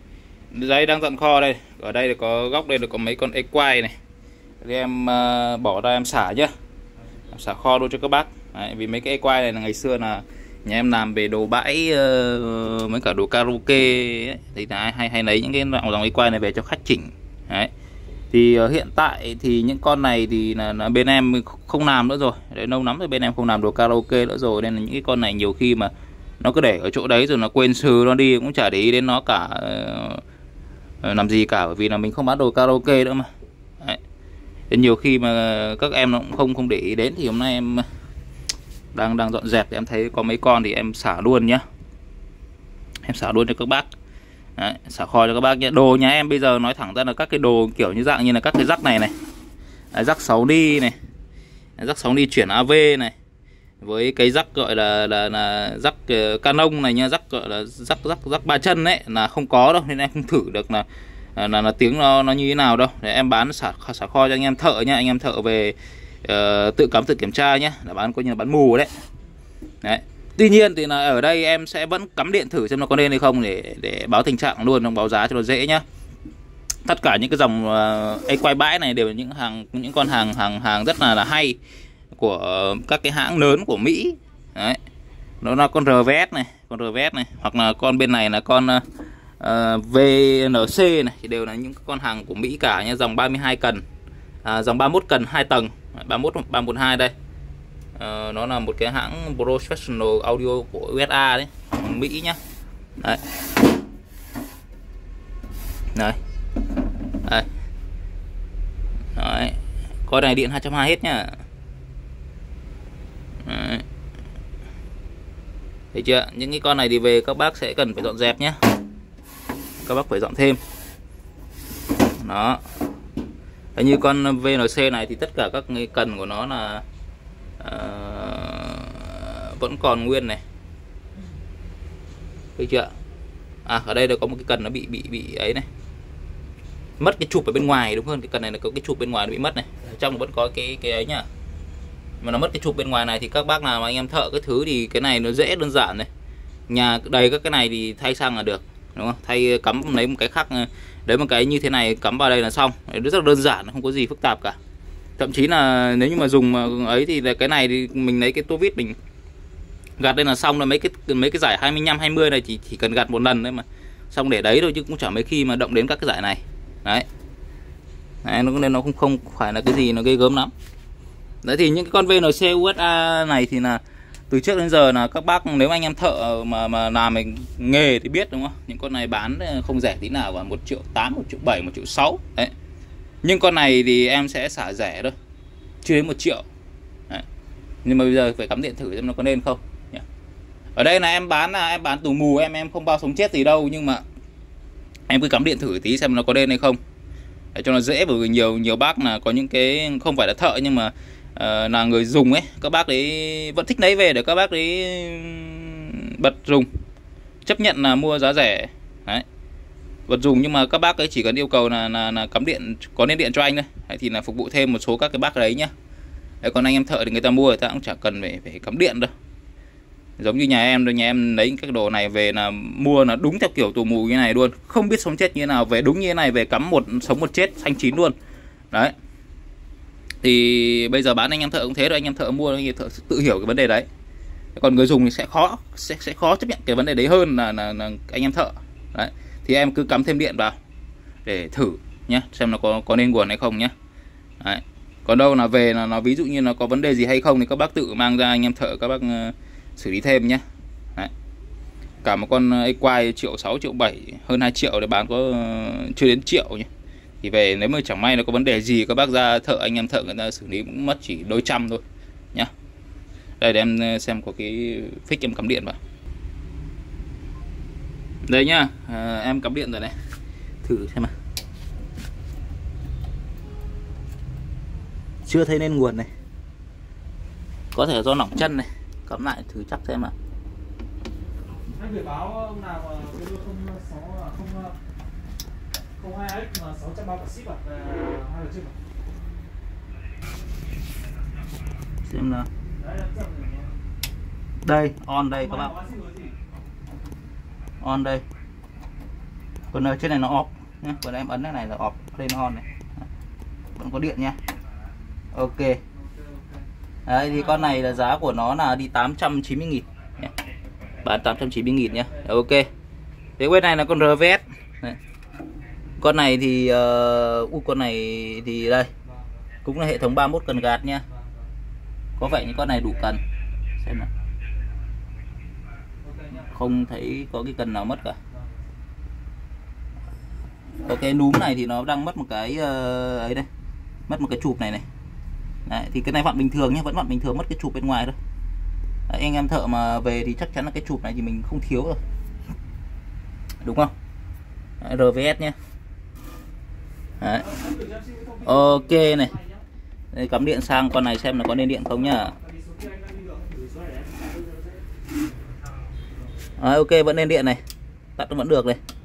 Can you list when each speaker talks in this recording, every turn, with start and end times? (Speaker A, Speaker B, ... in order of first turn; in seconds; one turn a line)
Speaker A: 0.5-3.9
Speaker A: 4.6-6.5
Speaker A: 7.3-17.7
Speaker A: 18.3-30.2
Speaker A: 31.0-33.3
Speaker A: 34.7-37.9
Speaker A: 38.9-41.6
Speaker A: 43.0-43.9
Speaker A: 44.6-49.1
Speaker A: 49.9-50.9
Speaker A: 51.8-53.1
Speaker A: 53.8-68.9
Speaker A: 69.8-75.8
Speaker A: 76.8-81.6
Speaker A: 82.1-84.8
Speaker A: 85.4-88.8
Speaker A: 89.4-93.8
Speaker A: 94.4-97.1
Speaker A: 98.0-102.4
Speaker A: 105.9-106.2
Speaker A: 109.2-111.3
Speaker A: 113.4-113.8
Speaker A: 115.9-118.6
Speaker A: 119.8-120.6
Speaker A: 122.0-122.6
Speaker A: 123.8-126.8
Speaker A: 127.6-130.4
Speaker A: 132.6-132.9
Speaker A: 133.7-135.7
Speaker A: 137.0-141.2
Speaker A: 142.2-146.1
Speaker A: 146.7-154.6
Speaker A: 155.2-159.0
Speaker A: 160.0-167.1
Speaker A: 168.2-170.5
Speaker A: 171.4-182.5
Speaker A: 183.2-185.1
Speaker A: 185.8-186.4
Speaker A: 187.8-190.0
Speaker A: 190.8-194.0
Speaker A: 195.1-196.8
Speaker A: 197.5-206.7
Speaker A: 207.4-209.2
Speaker A: 210.1-215.7
Speaker A: 216.4-219.1
Speaker A: 220.2-228.1
Speaker A: 230.2-233.9
Speaker A: 234.6-240.6
Speaker A: 241.2-243.7
Speaker A: 244.4-250.4
Speaker A: 252.0-256.7
Speaker A: 257.2-262.5
Speaker A: 263.4-265.8
Speaker A: 268.2-269.9
Speaker A: 270.6-271.1
Speaker A: 275.2-276.1
Speaker A: 277.7-280.1
Speaker B: 281.7-284.8
Speaker B: 286.0-288.8
Speaker A: 292.1-292.5
Speaker B: 292.8-293.6
Speaker A: 294.6-295.7
Speaker B: 295.4-296.3
Speaker A: 297.8-298.2
Speaker A: 299.7-302.7
Speaker A: 303.8-304.4
Speaker A: 305.3-305.8
Speaker B: 306.1-306.6
Speaker A: 307.1-310.3
Speaker A: 311.0-312.7
Speaker A: 313.4-314.9
Speaker A: 316.0-318.9
Speaker A: 319.6-321.0
Speaker A: 322.2-323.2
Speaker A: 323.8-324.1
Speaker B: 326.0-326.3
Speaker A: 326.3-328.2
Speaker A: 330.8-333.5
Speaker A: 334.1-334.8
Speaker A: 335.6-338.2
Speaker A: 339.1-342.0
Speaker A: 343.6-343.9
Speaker A: 344.8-345.5
Speaker A: 347.2-347.5
Speaker B: 347.4-349.5
Speaker A: 348.4-349.3
Speaker A: 350.1-352.3
Speaker B: 352.3-354.8
Speaker A: 356.6-357.6
Speaker A: 358.2-358.8